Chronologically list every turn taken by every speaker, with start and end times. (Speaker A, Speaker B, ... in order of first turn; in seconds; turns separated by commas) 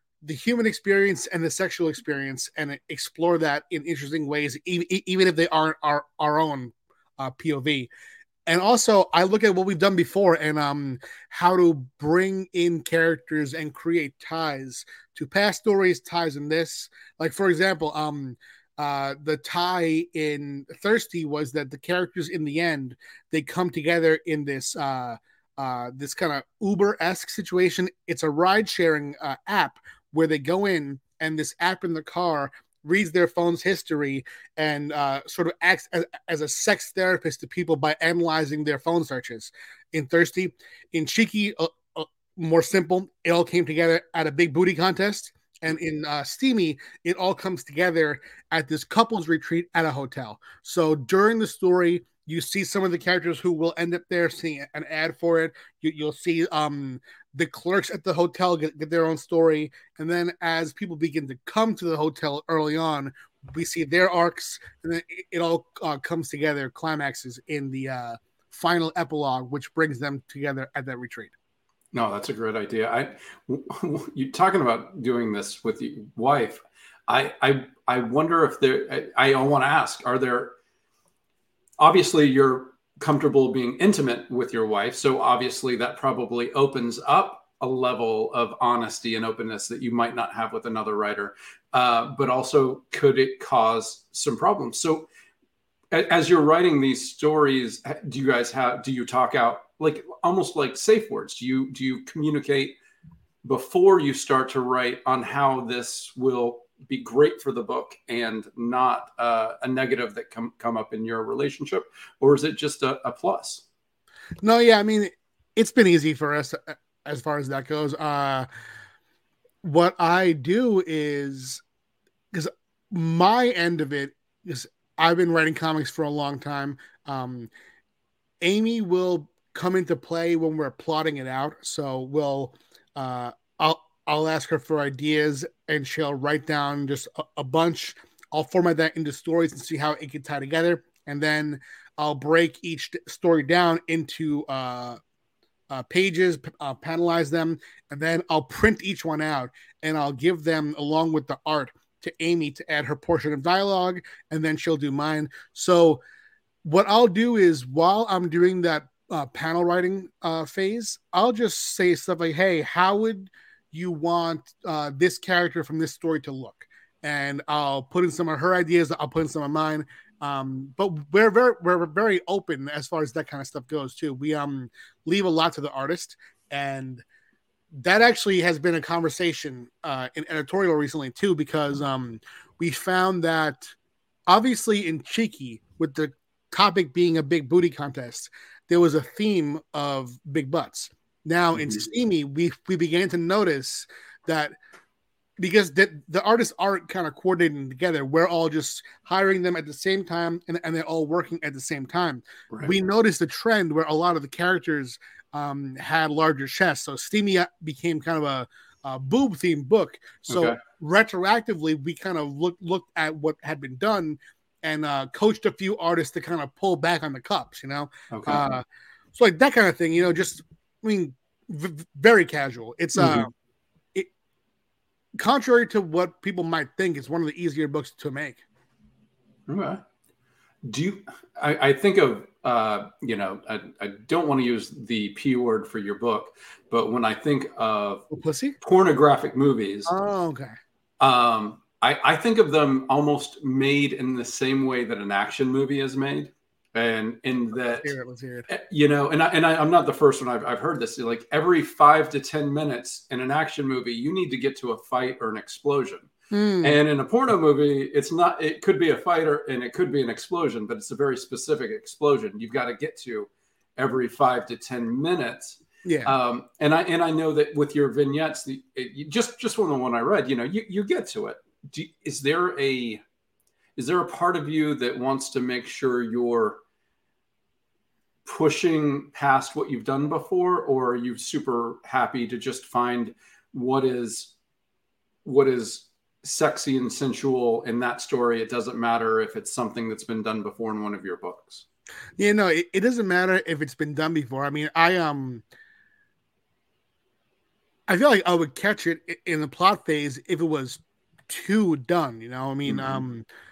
Speaker A: 0.2-7.9, Speaker A: 8.5-71.3, Speaker B: 71.9-80.5, Speaker B: 81.8-95.1, Speaker B: 95.9-102.8, Speaker B: 103.4-113.6, Speaker A: 114.4-118.5, Speaker A: 119.6-121.6, Speaker A: 122.3-127.5, Speaker A: 128.4-145.0, Speaker A: 145.7-156.0, Speaker A: 156.6-177.0, Speaker A: 177.8-183.7, Speaker A: 184.3-194.5, Speaker B: 191.6-191.8, Speaker A: 195.4-223.3, Speaker B: 210.3-210.6, Speaker B: 218.1-218.4, Speaker B: 222.9-223.3, Speaker A: 225.2-228.4, Speaker B: 229.5-229.8, Speaker B: 230.6-238.1, Speaker A: 238.1-238.6, Speaker B: 238.6-239.9, Speaker A: 239.9-240.5, Speaker B: 241.0-247.9, Speaker A: 247.7-248.5, Speaker B: 248.5-256.1, Speaker A: 256.3-256.8, Speaker B: 256.6-273.0, Speaker A: 265.8-266.1, Speaker B: 273.8-276.6, Speaker B: 278.2-284.3, Speaker B: 285.2-291.6, Speaker A: 292.2-295.4, Speaker A: 297.9-303.2, Speaker B: 302.6-303.0